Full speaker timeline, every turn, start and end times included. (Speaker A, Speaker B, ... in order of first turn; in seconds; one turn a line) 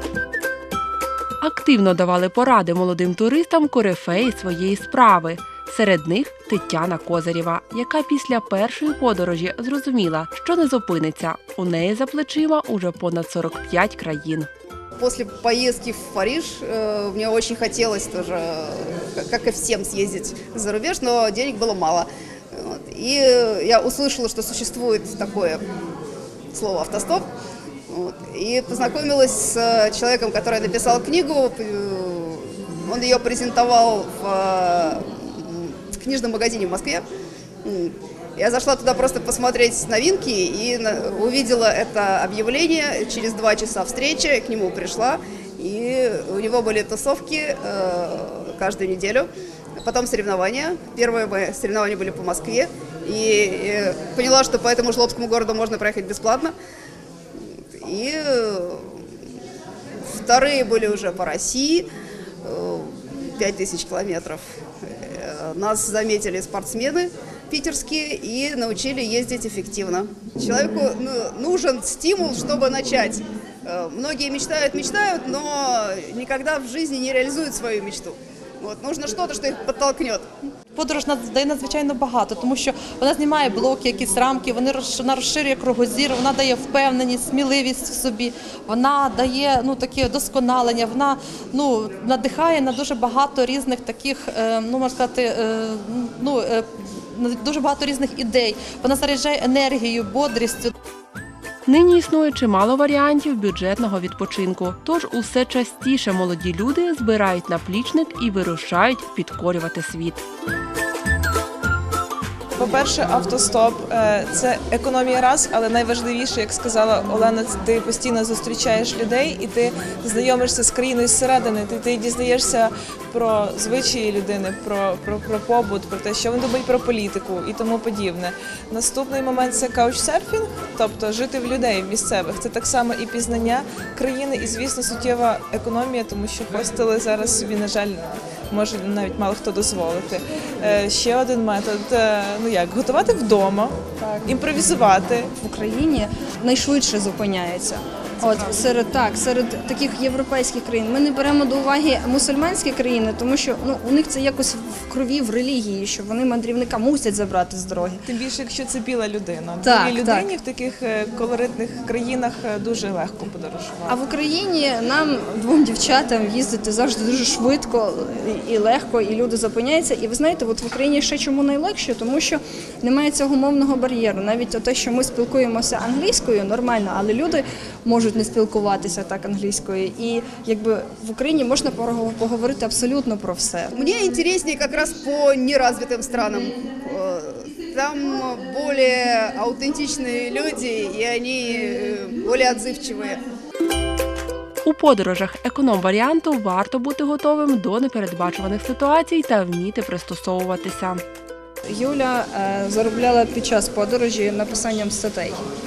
Speaker A: 1.4-14.5
Speaker B: 15.0-25.6
Speaker B: 26.5-27.2
Speaker B: 27.9-37.0
Speaker B: 37.6-49.3
Speaker B: 49.8-56.5
Speaker B: 57.8-59.0
Speaker B: 60.1-61.9
Speaker B: 62.4-80.3
Speaker C: 80.7-100.7
Speaker A: 101.7-110.2
Speaker D: 112.5-145.3
Speaker E: 144.0-144.3
Speaker E: 145.4-158.0
Speaker D: 148.2-148.6
Speaker D: 158.1-164.0
Speaker E: 159.6-160.3
Speaker E: 163.9-183.7
Speaker B: 183.7-193.2
Speaker A: 194.7-201.0
Speaker E: 201.7-205.4